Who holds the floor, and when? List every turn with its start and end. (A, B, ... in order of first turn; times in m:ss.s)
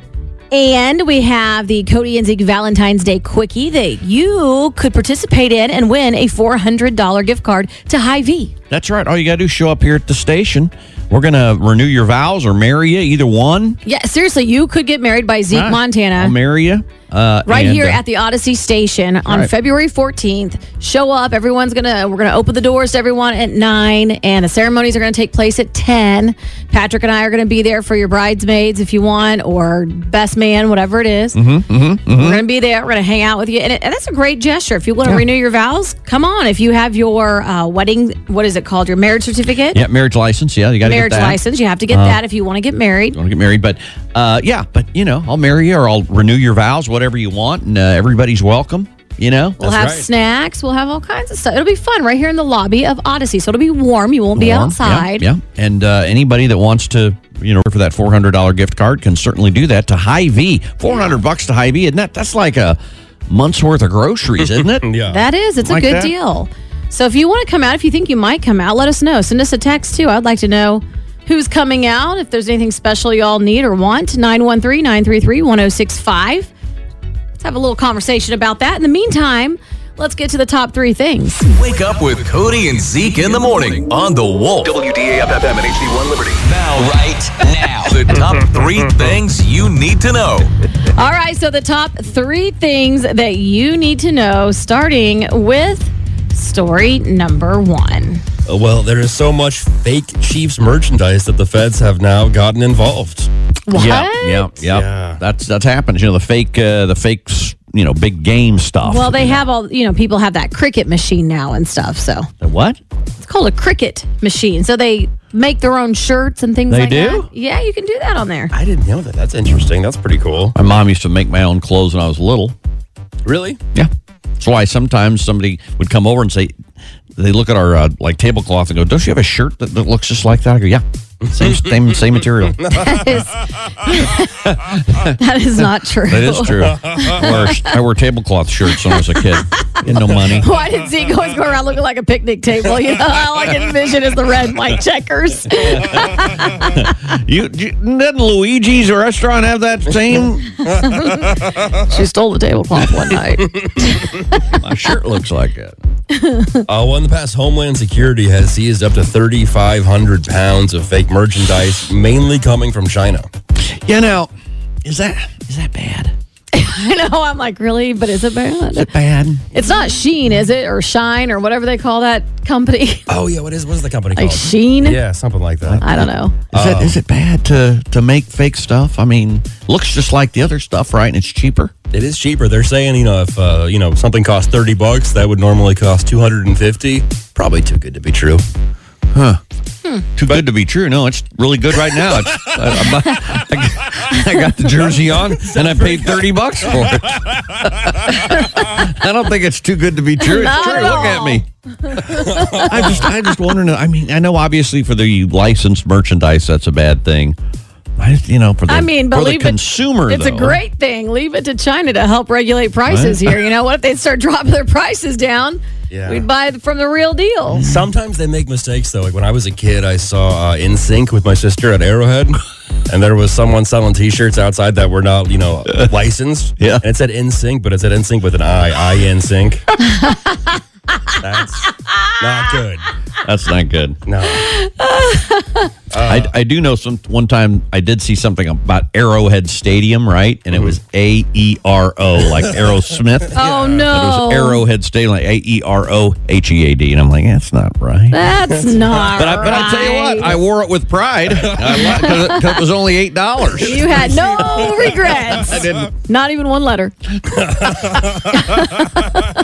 0:00.5-0:08.5 A
0:08.7-0:13.8 B
0:13.8-0:16.3 A
0:15.5-0:18.0 B
0:17.4-0:31.4 A
0:31.3-0:32.4 B
0:32.1-0:39.8 A
0:39.7-0:42.2 B
0:40.8-0:43.2 A
0:43.1-0:49.6 B
0:49.6-0:55.3 A
0:49.6-0:50.1 C
0:54.4-1:04.9 B
1:00.8-1:01.1 A
1:04.4-1:05.2 C
1:05.1-1:16.5 A
1:05.6-1:06.1 B
1:17.4-1:21.4 A
1:21.5-1:30.5 D
1:30.9-1:38.2 A
1:38.5-1:43.3 C
1:43.7-1:44.5 A
1:43.7-1:49.4 B
1:44.6-1:45.2 C
1:48.8-1:52.3 A
1:52.4-1:52.8 B
1:53.2-1:58.5 A
1:56.7-1:57.3 B
1:58.5-2:00.6 C
2:00.5-2:02.5 B
2:03.2-2:03.6 C
2:03.7-2:06.5 B
2:07.2-2:12.8 B
2:11.3-2:11.8 C
2:12.7-2:14.3 A
2:14.4-2:15.2 B
2:15.0-2:17.8 A
2:16.1-2:20.5 B
2:18.8-2:19.2 A
2:20.4-2:26.7 A
2:25.5-2:30.6 B
2:30.7-2:34.0 A
2:34.5-2:35.8 B
2:36.1-2:36.6 A
2:36.7-2:43.3 C
2:43.6-2:44.3 B
2:44.8-2:46.1 B
2:46.5-2:48.9 A
2:48.7-2:49.4 B
2:49.5-2:53.1 A
2:53.1-2:55.8 C
2:54.1-2:55.0 A
2:55.6-3:01.7 B
2:55.8-2:56.4 A
2:56.5-2:56.9 C
3:01.9-3:08.4 C
3:09.1-3:09.4 B
3:10.2-3:21.4 B
3:15.3-3:17.2 C
3:20.2-3:23.3 A
3:22.1-3:23.1 C
3:22.6-3:27.4 B
3:28.0-3:30.6 B
3:28.7-3:37.7 A
3:32.9-3:33.3 B
3:35.9-3:36.2 C
3:37.6-3:37.9 B
3:37.6-3:49.6 C
3:46.6-3:46.8 B
3:49.9-3:50.4 A
3:51.2-3:52.8 C
3:53.2-3:54.0 B
3:54.0-3:54.5 C
3:54.3-3:55.7 A
3:55.9-3:56.3 C
3:56.0-4:08.2 B
4:03.3-4:04.6 A
4:08.1-4:10.4 A
4:08.6-4:09.1 C
4:09.1-4:13.9 B
4:12.0-4:12.4 A
4:13.6-4:16.9 A
4:13.8-4:15.6 C
4:15.4-4:15.9 B
4:17.2-4:18.8 C
4:18.3-4:19.1 A